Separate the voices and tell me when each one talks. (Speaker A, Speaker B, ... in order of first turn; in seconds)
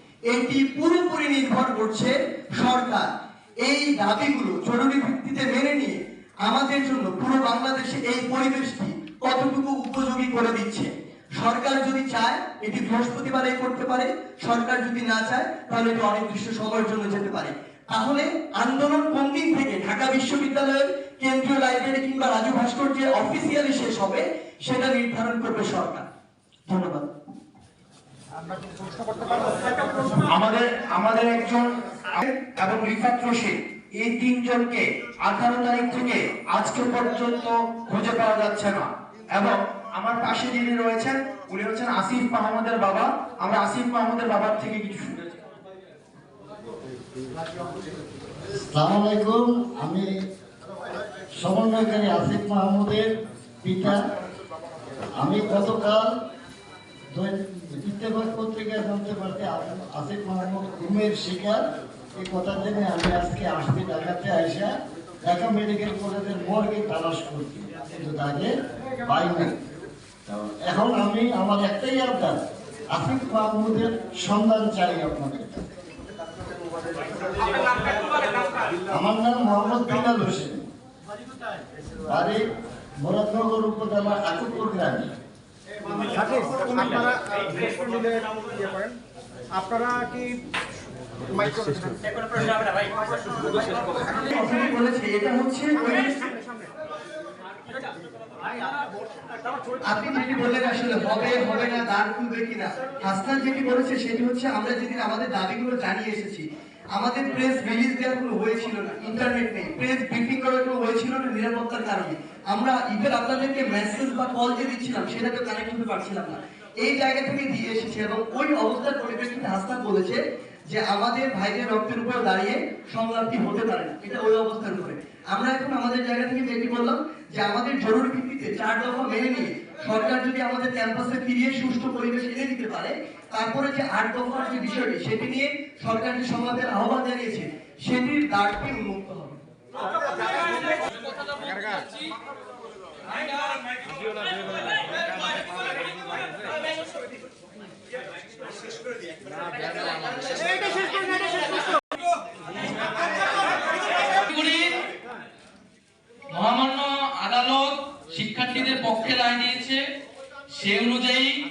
Speaker A: 0.3-3.1, 3.6-26.1, 26.7-27.1, 93.9-96.3, 99.8-139.4
Speaker B: 28.5-29.6, 85.9-89.0, 89.5-90.4, 91.3-92.0
Speaker C: 30.0-45.4
Speaker D: 48.5-50.1, 51.4-53.1, 53.6-54.0, 55.2-56.2, 57.1-61.6, 62.2-69.6, 70.2-75.7, 78.9-80.7, 82.1-82.4, 83.0-85.1
Speaker E: 141.4-141.8, 154.1-154.8, 156.3-159.8, 160.6-161.3